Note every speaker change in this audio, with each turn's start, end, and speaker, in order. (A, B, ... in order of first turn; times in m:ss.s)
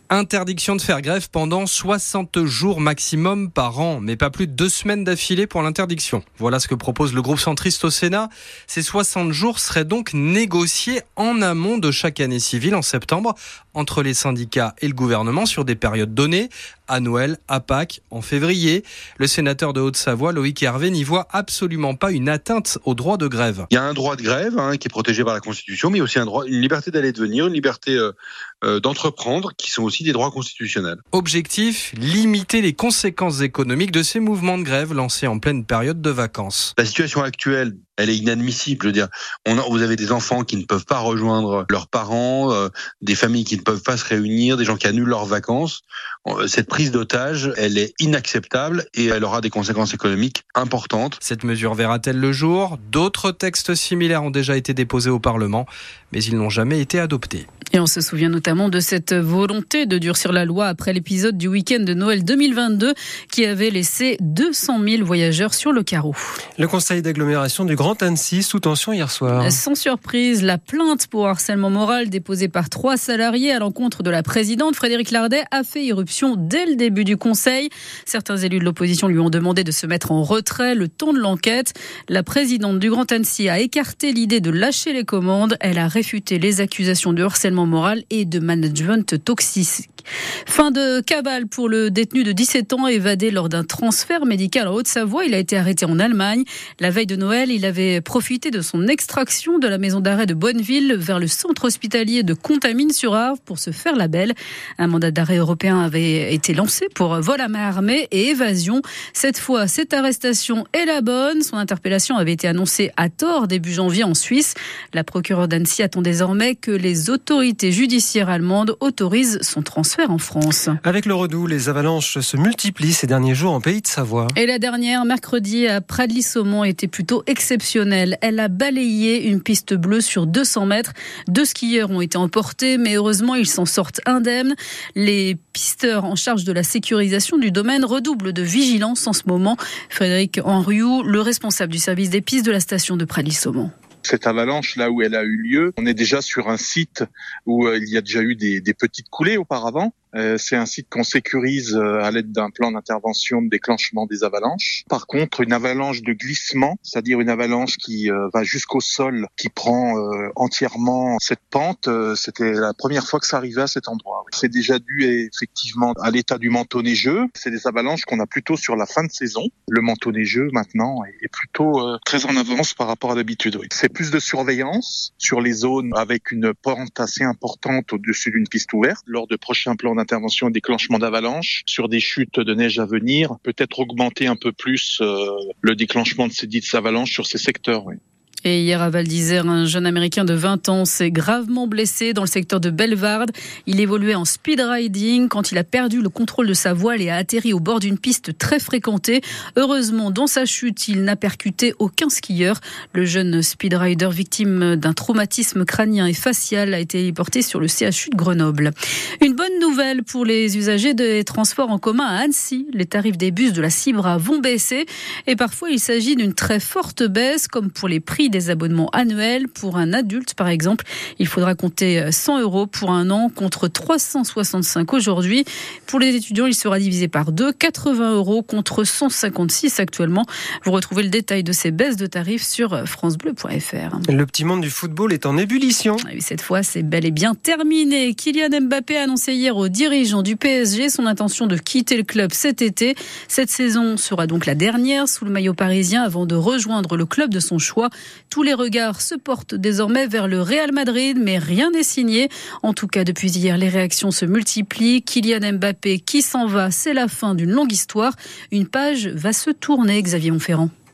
0:00.1-0:23.7 A
0:23.7-0:31.0 B
0:31.1-0:36.7 A
0:36.8-0:51.2 B
0:51.2-0:57.4 A
0:57.7-1:06.4 C
1:06.6-1:09.6 D
1:09.3-1:29.9 C
1:30.5-2:00.8 C
2:00.8-2:04.4 D
2:04.4-2:23.7 C
2:24.0-3:08.0 E
3:08.4-3:54.0 C
3:54.1-3:56.0 D
3:56.1-4:20.7 C